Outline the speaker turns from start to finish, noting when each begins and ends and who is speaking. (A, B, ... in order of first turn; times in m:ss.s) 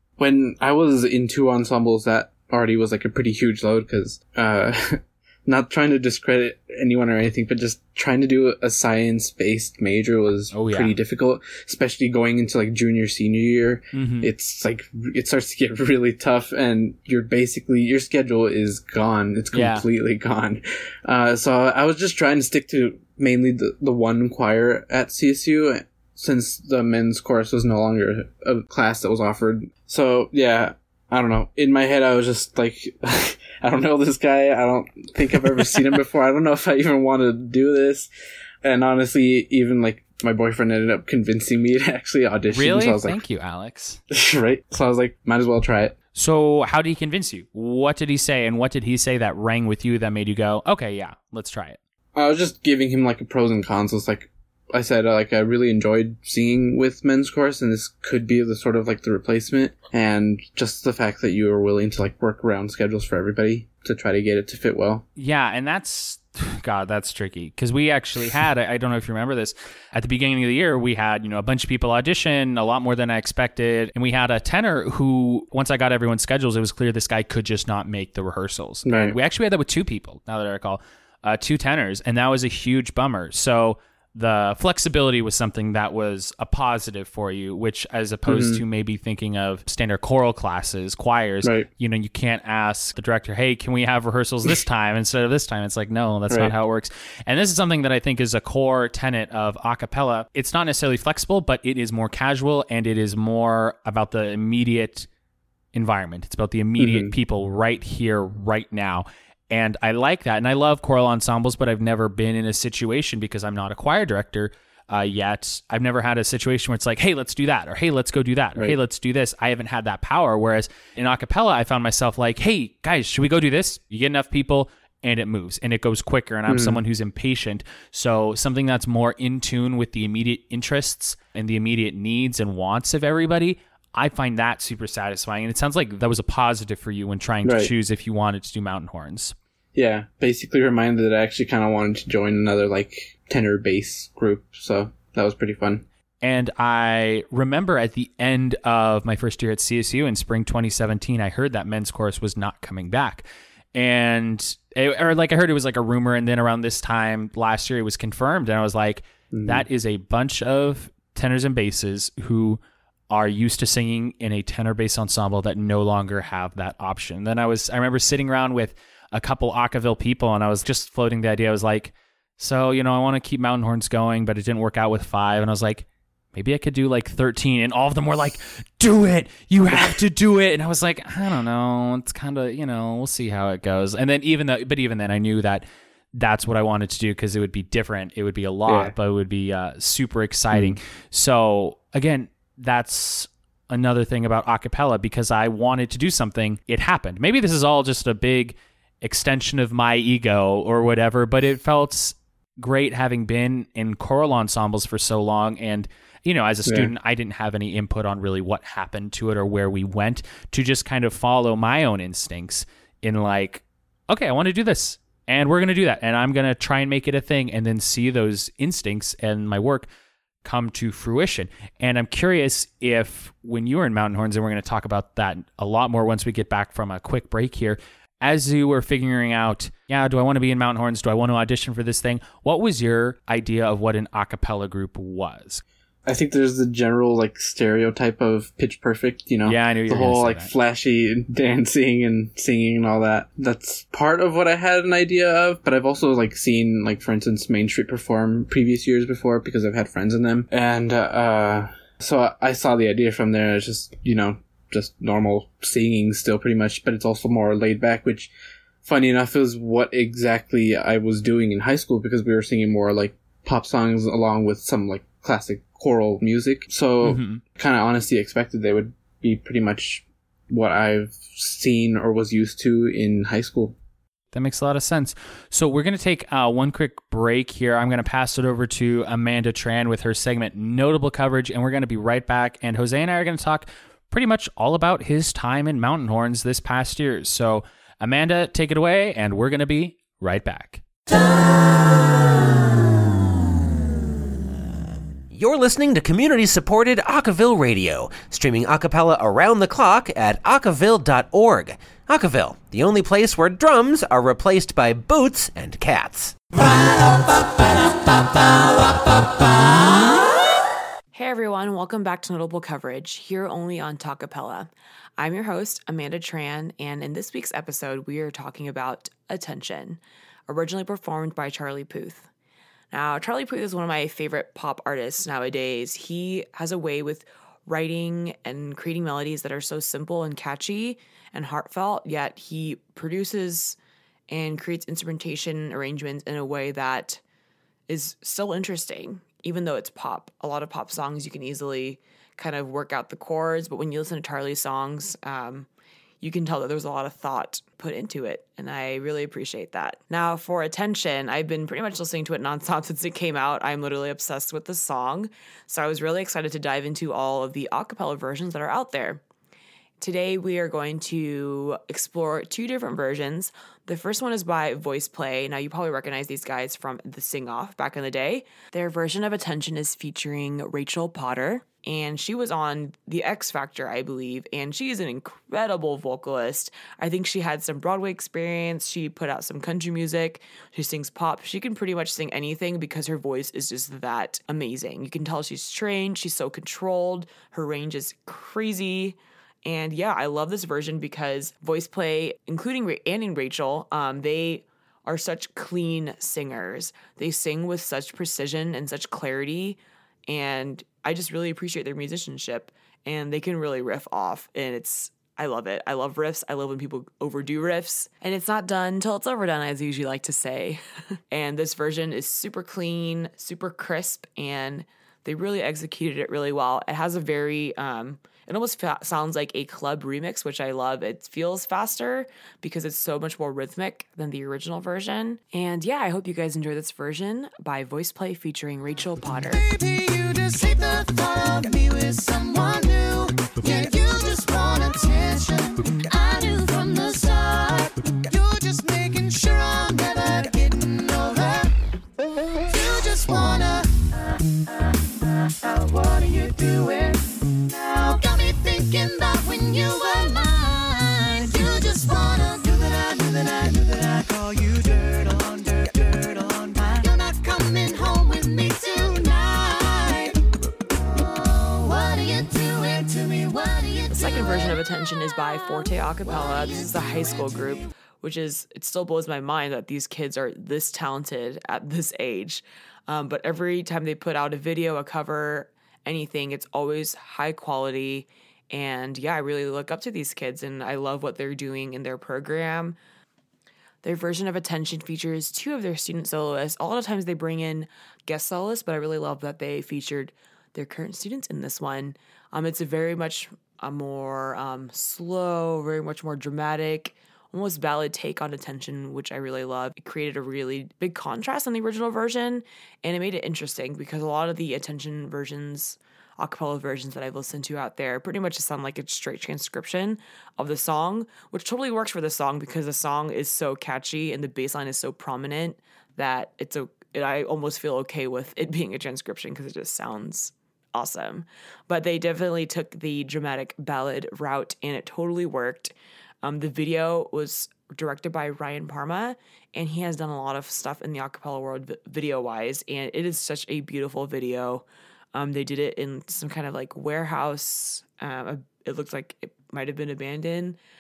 0:00.2-0:38.1 A
0:10.5-0:10.9 B
0:13.9-0:14.3 B
0:19.5-0:19.8 B
0:38.6-0:43.2 A
0:42.5-0:44.0 B
0:44.1-0:45.9 A
0:46.1-0:51.8 B
0:52.1-1:05.0 A
1:05.2-1:45.1 B
1:18.8-1:19.2 A
1:28.2-1:28.6 A
1:45.7-2:19.3 B
1:46.8-1:47.1 A
2:06.5-2:06.8 A
2:17.4-2:17.7 A
2:19.7-2:25.8 A
2:26.2-3:05.6 B
2:39.3-2:39.6 A
3:06.2-3:39.9 B
3:08.7-3:08.9 A
3:10.5-3:10.8 A
3:26.6-3:26.9 A
3:40.4-3:55.6 B
3:56.0-4:18.3 A
3:59.4-4:00.5 B
4:18.8-4:33.7 A
4:27.0-4:27.4 B
4:34.3-4:50.8 B
4:55.3-5:06.4 C
5:11.1-5:22.3 D
5:22.9-5:33.8 D
5:34.3-5:37.2 D
5:37.9-5:45.7 D
5:46.2-5:59.2 D
6:00.0-7:09.6 D
7:09.5-7:21.7 E
7:22.7-7:24.0 E
7:25.6-7:40.4 E
7:41.2-7:44.7 E
7:44.1-8:03.0 D
8:04.0-9:00.8 D